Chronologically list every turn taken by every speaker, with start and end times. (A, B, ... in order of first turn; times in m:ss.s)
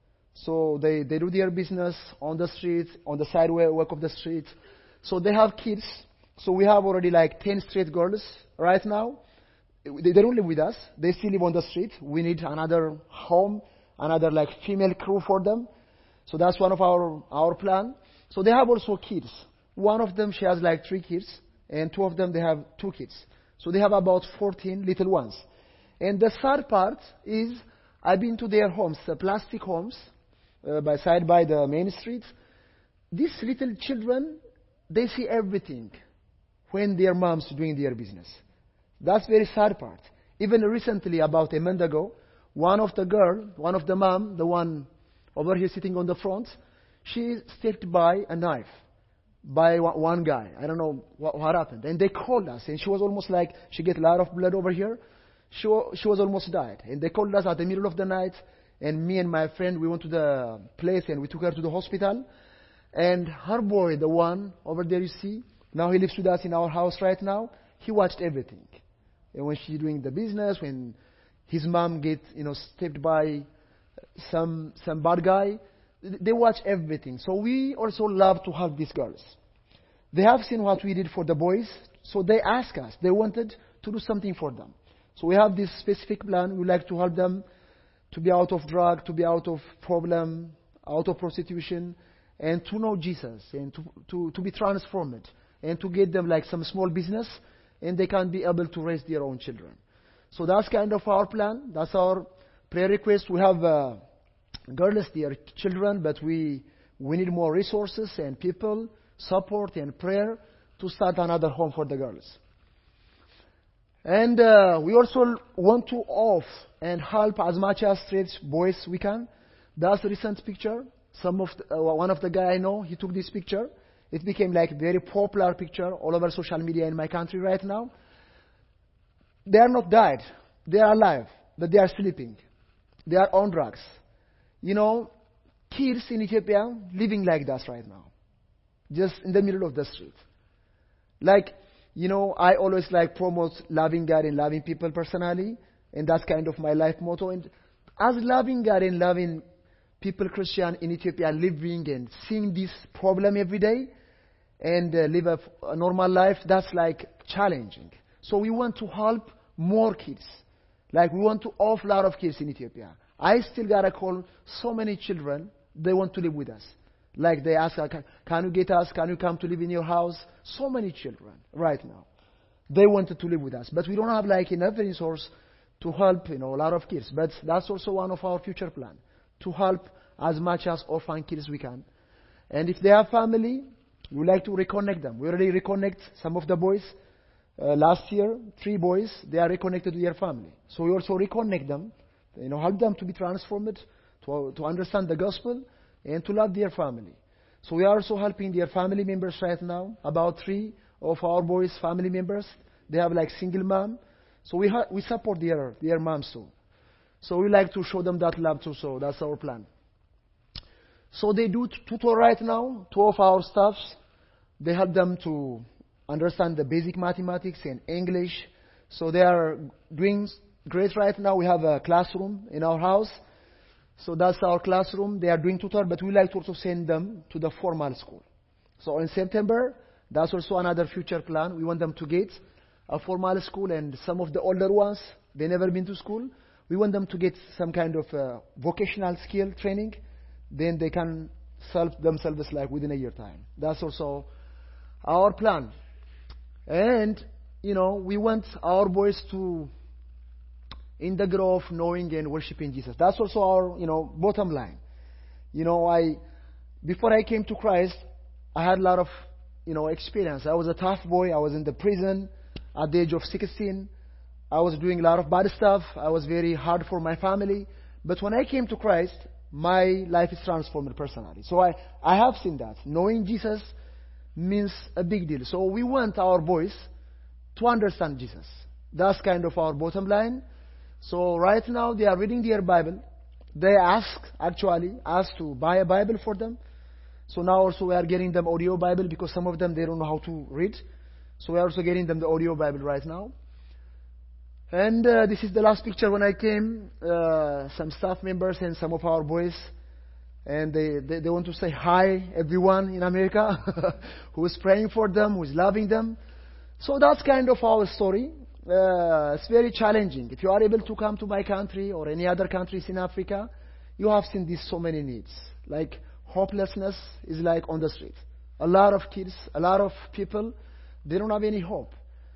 0:00.3-0:09.2 A
0:09.8-0:15.7 A
0:16.3-0:25.4 A
0:26.0-0:30.1 A
0:30.6-0:32.3 A
0:33.1-0:34.4 A
0:34.9-0:36.0 A
0:36.7-0:38.4 A
0:39.0-0:48.8 A
0:49.4-0:55.0 A
0:55.5-1:02.2 A
1:02.9-1:08.7 A
1:09.3-1:11.0 A
1:11.5-1:13.4 A
1:14.2-1:19.4 A
1:20.1-1:27.4 A
1:28.1-1:39.8 A
1:40.3-1:44.0 A
1:44.7-1:52.4 A
1:54.0-2:07.9 A
2:09.4-2:12.4 A
2:13.1-2:14.0 A
2:14.6-2:15.1 A
2:15.7-2:18.1 A
2:18.9-2:20.2 A
2:21.2-2:29.4 A
2:30.0-2:33.9 A
2:34.6-2:52.0 A
2:52.7-3:01.8 A
3:02.5-3:06.9 A
3:07.6-3:26.5 A
3:27.2-3:29.7 A
3:31.1-3:34.0 A
3:34.6-3:43.2 A
3:44.0-3:48.2 A
3:48.8-4:00.0 A
4:00.5-4:04.3 A
4:05.0-4:05.7 A
4:06.7-4:09.7 A
4:11.0-4:14.8 A
4:15.5-4:16.2 A
4:16.8-4:18.0 A
4:18.5-4:23.9 A
4:24.5-4:33.7 A
4:34.4-4:36.9 A
4:37.5-4:40.4 A
4:41.0-4:43.0 A
4:43.5-4:46.6 A
4:47.3-4:50.8 A
4:51.4-4:53.3 A
4:54.7-4:59.7 A
5:00.4-5:06.2 A
5:06.8-5:20.5 A
5:21.0-5:21.9 A